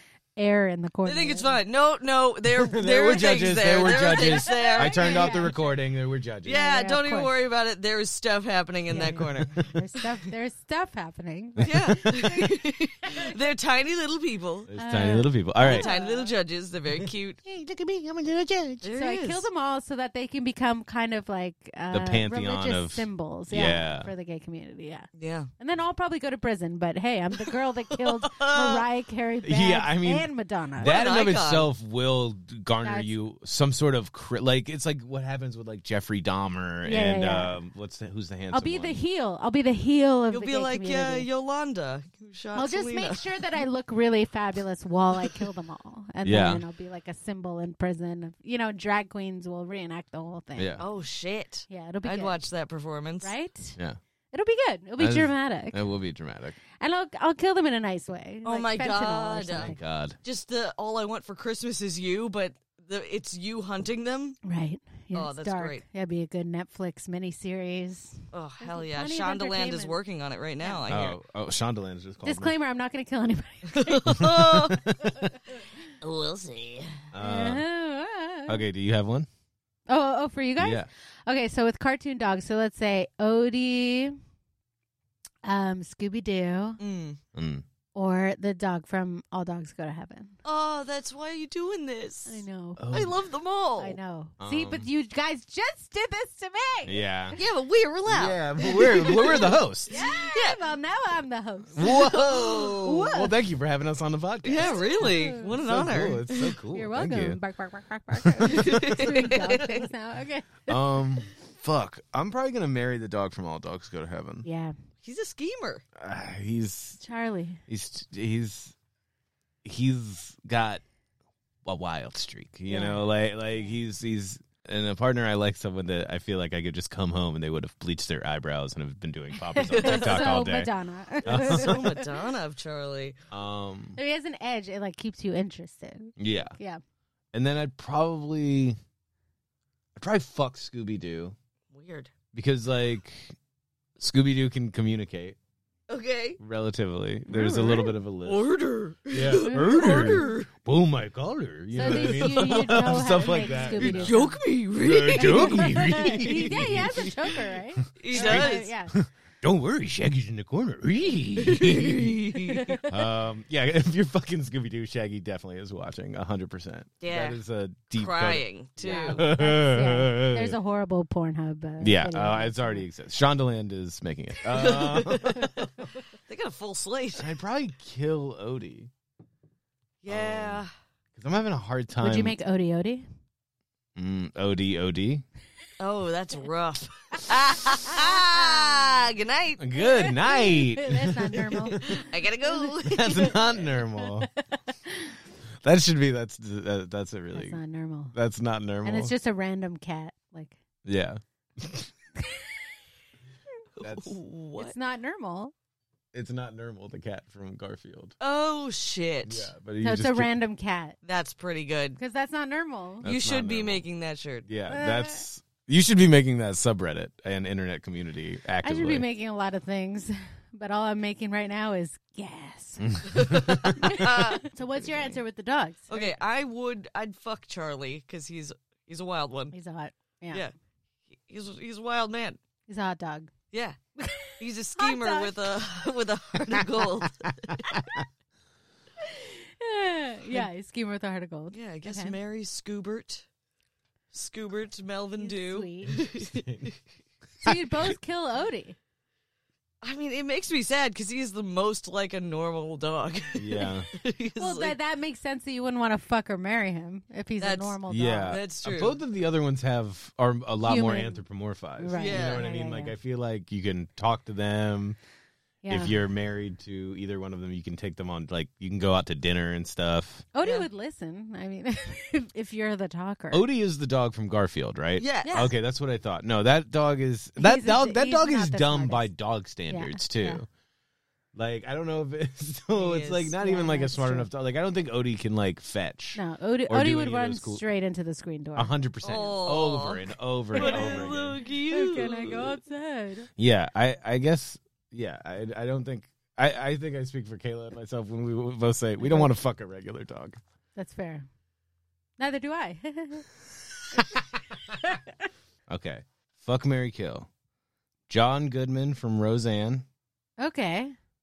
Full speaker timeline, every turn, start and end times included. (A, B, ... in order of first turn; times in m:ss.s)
0:00.4-0:01.6 A
0:01.0-0:05.5 B
0:02.5-0:06.6 C
0:04.0-0:05.7 A
0:06.4-0:09.7 B
0:06.5-0:07.3 A
0:08.9-0:13.3 A
0:11.6-0:12.2 C
0:11.6-0:14.7 B
0:14.7-0:15.9 C
0:14.8-0:16.3 A
0:15.6-0:17.4 B
0:17.0-0:18.9 C
0:18.8-0:19.5 B
0:19.0-0:31.0 A
0:21.9-0:24.1 C
0:25.2-0:25.5 B
0:27.9-0:28.8 B
0:29.4-0:39.0 C
0:30.8-0:31.7 B
0:32.8-0:33.1 A
0:36.8-0:37.6 A
0:38.5-0:41.3 A
0:40.3-0:43.2 B
0:42.6-0:50.8 A
0:46.2-0:46.6 C
0:50.6-0:50.8 C
0:50.8-0:53.3 B
0:51.7-0:52.4 A
0:53.2-0:53.8 A
0:54.3-0:55.8 A
0:55.0-0:56.6 C
0:56.8-0:59.8 A
0:58.4-1:04.4 B
0:59.5-1:00.2 C
1:04.4-1:10.0 A
1:05.1-1:05.8 B
1:08.3-1:11.2 B
1:10.9-1:12.5 C
1:12.2-1:14.0 A
1:13.7-1:14.8 B
1:14.1-1:15.4 C
1:16.0-1:17.0 B
1:17.1-1:17.6 C
1:17.2-1:18.6 A
1:18.5-1:19.3 C
1:19.9-1:24.2 A
1:20.6-1:20.9 C
1:25.4-1:26.8 A
1:26.8-1:27.2 B
1:27.3-1:27.6 C
1:28.0-1:30.4 A
1:30.4-1:34.0 B
1:32.3-1:32.8 A
1:32.8-1:33.2 C
1:33.8-1:37.4 A
1:34.4-1:34.9 C
1:36.9-1:37.4 C
1:37.4-1:40.6 B
1:38.1-1:40.0 C
1:38.6-1:43.4 A
1:41.7-1:47.4 C
1:41.8-1:42.8 B
1:44.4-1:46.6 B
1:44.6-1:45.6 A
1:46.7-1:50.8 A
1:48.2-1:48.8 C
1:48.5-1:49.9 B
1:50.7-1:54.5 C
1:54.4-1:54.8 A
1:55.0-1:55.8 B
1:56.0-1:57.0 C
1:57.0-1:57.6 A
1:57.7-1:58.8 C
1:59.6-2:00.8 C
2:01.6-2:10.7 C
2:02.7-2:03.1 A
2:09.5-2:12.1 A
2:09.8-2:10.3 B
2:11.2-2:11.9 C
2:11.3-2:13.2 B
2:13.3-2:14.0 C
2:14.0-2:16.8 A
2:16.2-2:16.6 C
2:17.3-2:18.8 C
2:20.0-2:21.4 C
2:21.7-2:22.1 B
2:22.3-2:23.4 C
2:24.0-2:25.4 C
2:25.9-2:26.4 B
2:26.4-2:28.5 C
2:27.4-2:30.5 B
2:29.1-2:34.2 C
2:29.4-2:30.1 A
2:31.7-2:34.4 A
2:31.8-2:32.8 B
2:33.5-2:36.6 B
2:34.8-2:42.2 C
2:35.1-2:39.0 A
2:38.0-2:38.7 B
2:41.4-2:42.8 B
2:42.5-2:42.9 A
2:42.9-2:50.6 C
2:47.0-2:47.4 B
2:47.9-2:49.2 B
2:48.8-2:52.9 A
2:51.8-2:55.7 C
2:54.5-2:55.7 B
2:56.3-2:57.3 B
2:57.2-2:58.9 C
3:00.0-3:00.7 B
3:00.1-3:02.4 C
3:02.0-3:03.1 A
3:04.0-3:05.2 C
3:05.8-3:09.6 B
3:07.9-3:08.9 A
3:09.6-3:12.0 C
3:09.8-3:15.2 A
3:11.8-3:13.4 B
3:12.8-3:14.3 C
3:15.6-3:17.6 C
3:17.3-3:18.2 A
3:18.1-3:19.1 C
3:18.8-3:20.6 A
3:20.8-3:21.9 C
3:23.8-3:24.8 B
3:23.8-3:24.2 C
3:24.6-3:25.5 A
3:26.1-3:28.2 C
3:28.2-3:29.5 B
3:29.2-3:30.3 C
3:29.8-3:31.0 A
3:31.0-3:32.0 B
3:32.0-3:33.1 A
3:33.0-3:33.8 C
3:33.0-3:34.5 B
3:34.5-3:39.0 C
3:34.7-3:35.2 A
3:38.6-3:46.2 A
3:42.8-3:43.9 C
3:43.1-3:44.5 B
3:45.9-3:49.5 B
3:49.5-3:50.4 A
3:51.3-3:52.4 B
3:52.7-3:53.3 A
3:53.5-3:53.8 B
3:54.0-3:55.6 A
3:54.4-3:57.8 B
3:57.7-3:58.1 C
3:59.0-4:02.2 A
4:01.5-4:03.2 B
4:04.1-4:06.8 B
4:05.2-4:06.0 A
4:05.9-4:06.7 C
4:07.4-4:08.8 A
4:09.8-4:14.8 B
4:13.4-4:13.9 C
4:14.4-4:18.4 A
4:17.4-4:19.0 B
4:17.9-4:25.0 C
4:20.6-4:21.2 A
4:21.8-4:22.9 A
4:21.9-4:22.4 B
4:25.6-4:26.0 A
4:25.7-4:30.3 C
4:30.3-4:33.4 A
4:30.4-4:30.7 B
4:33.3-4:40.5 C
4:35.0-4:35.4 B
4:35.2-4:35.5 A
4:37.4-4:39.1 A
4:39.7-4:40.4 A
4:41.4-4:47.6 C
4:42.8-4:43.3 B
4:43.4-4:44.3 A
4:46.2-4:48.8 A
4:48.6-4:51.4 C
4:49.0-4:52.5 B
4:50.5-4:53.3 A
4:53.4-5:00.4 C
4:59.0-4:59.3 A
5:00.8-5:01.3 A
5:02.2-5:03.3 A
5:04.8-5:05.1 A
5:05.7-5:07.3 C
5:08.1-5:09.8 C
5:10.4-5:11.0 A